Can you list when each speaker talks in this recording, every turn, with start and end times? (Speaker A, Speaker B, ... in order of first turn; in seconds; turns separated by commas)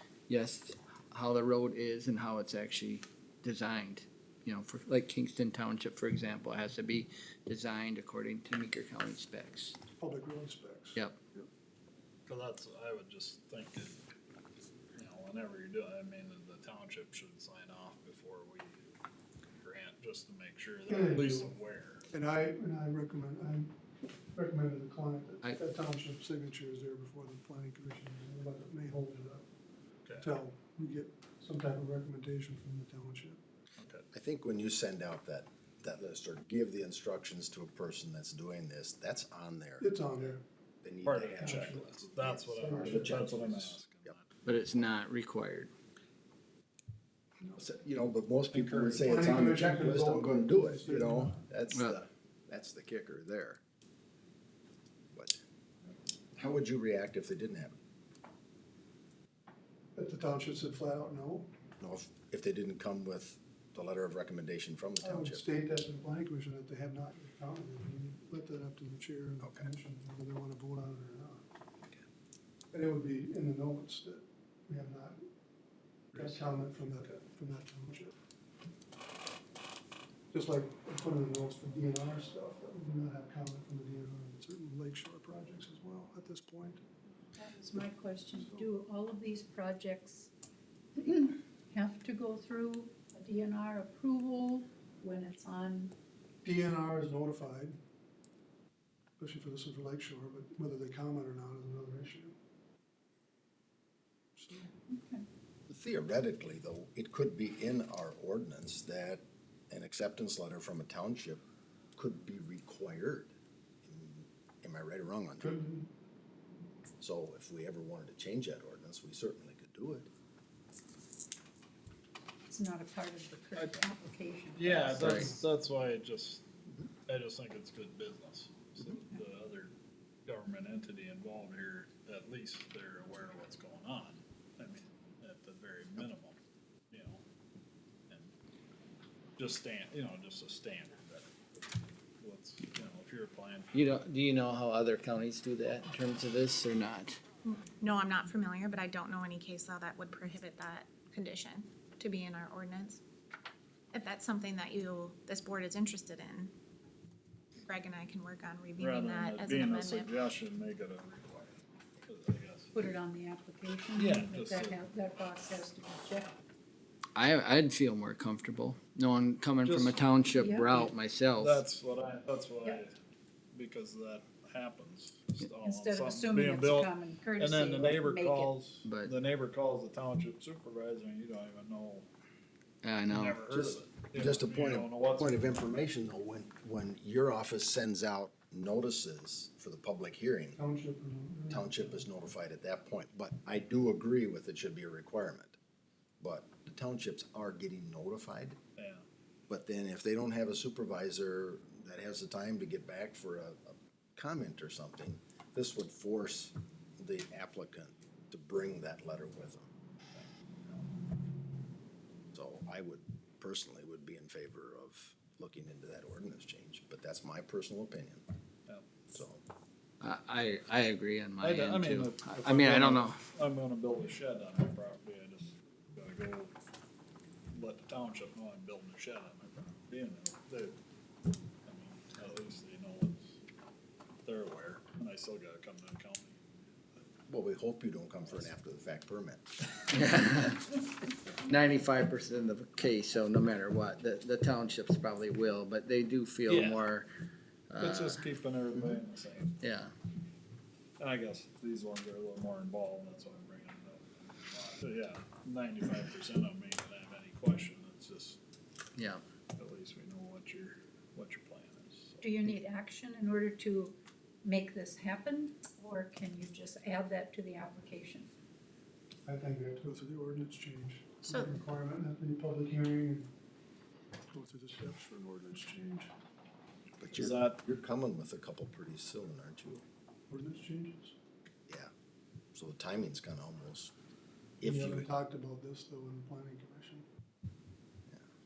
Speaker A: 0.3-9.8, Speaker B: 10.0-11.5, Speaker C: 12.3-14.0, Speaker C: 14.9-19.0, Speaker C: 19.6-22.1, Speaker B: 20.9-21.5, Speaker B: 22.1-23.8, Speaker B: 24.3-29.4, Speaker C: 30.0-30.4, Speaker B: 30.2-33.4, Speaker C: 33.8-34.0, Speaker D: 34.1-44.1, Speaker B: 39.8-40.4, Speaker C: 41.0-44.4, Speaker B: 41.4-41.9, Speaker B: 42.5-43.3, Speaker A: 44.4-45.7, Speaker D: 47.5-53.6, Speaker C: 48.5-49.1, Speaker B: 48.9-51.4, Speaker A: 51.7-52.0, Speaker D: 55.1-55.4, Speaker D: 56.3-57.8, Speaker B: 59.9-61.5, Speaker D: 61.8-65.4, Speaker B: 65.0-71.4, Speaker D: 69.4-69.7, Speaker B: 72.7-75.2, Speaker B: 76.1-78.1, Speaker C: 76.1-77.1, Speaker B: 80.3-86.8, Speaker E: 87.3-90.3, Speaker B: 88.3-88.7, Speaker E: 91.0-95.9, Speaker B: 96.4-97.8, Speaker B: 99.2-102.3, Speaker B: 104.3-104.7, Speaker E: 104.9-105.2, Speaker D: 105.7-111.4, Speaker D: 111.9-115.5, Speaker B: 115.4-115.9, Speaker D: 117.0-120.1, Speaker E: 122.5-125.4, Speaker C: 123.5-123.8, Speaker C: 124.5-126.5, Speaker A: 124.9-125.3, Speaker C: 127.1-129.7, Speaker C: 130.2-136.4, Speaker C: 136.9-137.2, Speaker C: 139.4-143.7, Speaker A: 143.7-147.2, Speaker F: 147.4-153.0, Speaker F: 153.9-156.5, Speaker F: 157.6-160.2, Speaker C: 158.8-162.8, Speaker E: 162.7-166.4, Speaker C: 163.9-164.8, Speaker A: 167.1-171.6, Speaker C: 169.6-170.2, Speaker E: 170.3-170.9, Speaker C: 171.3-172.9, Speaker C: 173.5-182.1, Speaker E: 175.6-178.5, Speaker A: 178.8-179.1, Speaker A: 182.8-183.4, Speaker C: 183.1-185.4, Speaker D: 183.5-190.6, Speaker B: 190.6-192.0, Speaker D: 191.5-195.6, Speaker D: 196.2-198.6, Speaker C: 198.8-199.0, Speaker D: 199.5-209.7, Speaker D: 212.3-218.2, Speaker D: 219.1-219.4, Speaker A: 220.0-223.2, Speaker C: 221.4-226.5, Speaker C: 227.5-230.8, Speaker C: 231.6-233.3, Speaker C: 234.2-236.4, Speaker D: 237.3-239.5, Speaker A: 239.9-240.6, Speaker A: 241.5-247.1, Speaker C: 246.5-246.9, Speaker A: 247.7-248.2, Speaker C: 247.8-249.6, Speaker A: 249.6-249.9, Speaker C: 251.0-258.4, Speaker A: 258.9-259.2, Speaker C: 259.6-262.3, Speaker E: 262.2-268.3, Speaker B: 269.2-273.3, Speaker F: 271.2-271.6, Speaker B: 274.3-276.1, Speaker D: 277.0-279.8, Speaker C: 277.1-277.6, Speaker B: 280.3-281.1, Speaker D: 282.5-283.9, Speaker D: 284.6-285.1, Speaker B: 284.6-287.0